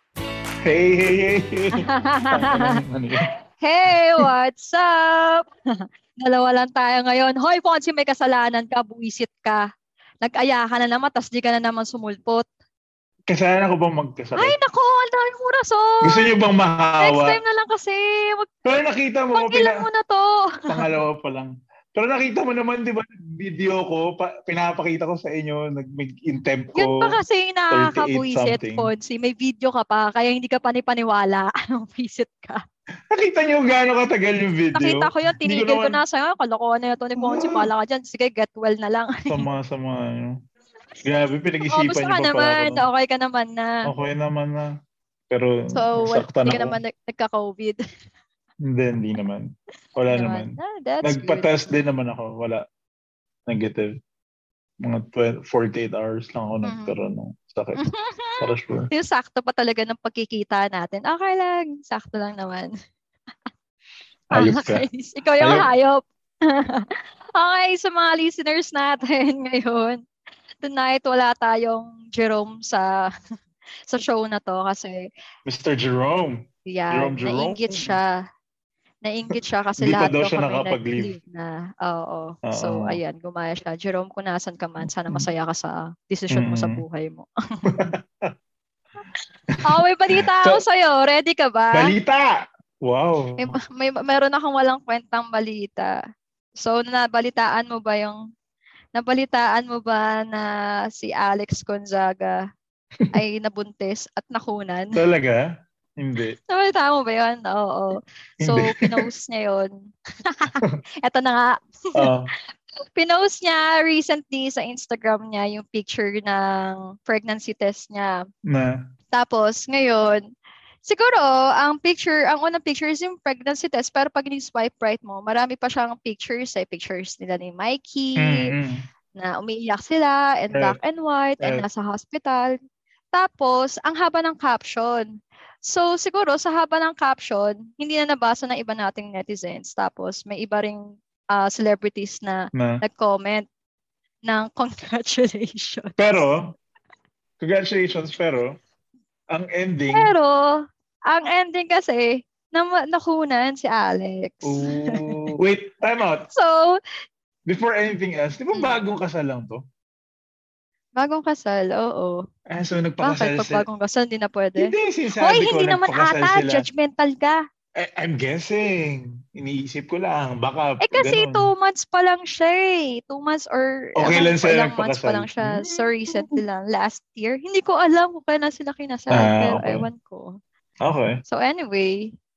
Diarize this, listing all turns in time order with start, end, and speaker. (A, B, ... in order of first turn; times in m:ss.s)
0:00.6-0:03.3 A
0:01.8-0:02.8 B
0:03.6-0:09.6 B
0:10.2-0:12.4 B
0:13.3-0:14.5 A
0:14.4-0:16.3 B
0:16.0-0:17.4 A
0:17.0-0:18.5 B
0:18.6-0:19.8 A
0:19.3-0:20.9 B
0:20.7-0:27.1 A
0:26.8-0:32.6 B
0:27.7-0:28.9 A
0:33.1-0:36.0 A
0:34.7-0:39.4 B
0:37.2-0:37.7 A
0:39.3-0:40.4 A
0:41.0-0:42.8 A
0:41.7-0:43.8 B
0:43.8-0:44.7 A
0:45.3-0:46.8 A
0:45.7-0:47.8 B
0:48.6-0:52.6 A
0:50.1-0:51.5 B
0:53.5-0:53.9 A
0:54.8-0:57.8 A
0:56.6-0:56.9 B
0:57.8-1:02.7 B
0:58.4-0:58.9 A
1:04.3-1:10.0 B
1:04.3-1:04.8 A
1:05.4-1:05.7 A
1:10.6-1:12.9 B
1:13.9-1:15.1 B
1:15.4-1:18.0 A
1:16.7-1:18.2 B
1:19.0-1:27.8 B
1:19.8-1:21.1 A
1:22.4-1:23.0 A
1:26.3-1:26.8 A
1:27.6-1:28.3 A
1:29.6-1:31.9 B
1:30.1-1:30.6 A
1:31.7-1:33.6 A
1:33.4-1:35.9 B
1:36.6-1:38.2 B
1:38.9-1:42.4 B
1:43.1-1:45.0 B
1:45.0-1:45.4 A
1:46.0-1:46.4 A
1:46.5-1:52.1 B
1:48.4-1:49.0 A
1:52.0-1:52.3 A
1:52.8-1:58.2 B
1:58.5-1:58.8 A
1:59.1-2:00.2 B
2:00.8-2:08.5 B
2:08.2-2:08.8 A
2:09.2-2:12.6 B
2:13.1-2:15.1 B
2:15.6-2:23.4 B
2:22.5-2:22.8 A
2:24.3-2:26.2 B
2:26.0-2:26.5 A
2:27.4-2:28.6 A
2:29.3-2:30.1 A
2:29.9-2:35.2 B
2:34.4-2:36.3 A
2:36.3-2:36.8 B
2:37.5-2:39.6 A
2:41.0-2:42.2 B
2:42.5-2:43.6 A
2:43.0-2:47.4 B
2:44.6-2:46.6 A
2:47.8-2:51.5 A
2:50.8-3:00.4 B
2:54.0-2:56.4 A
2:59.1-2:59.8 A
3:00.8-3:01.2 A
3:01.3-3:02.2 B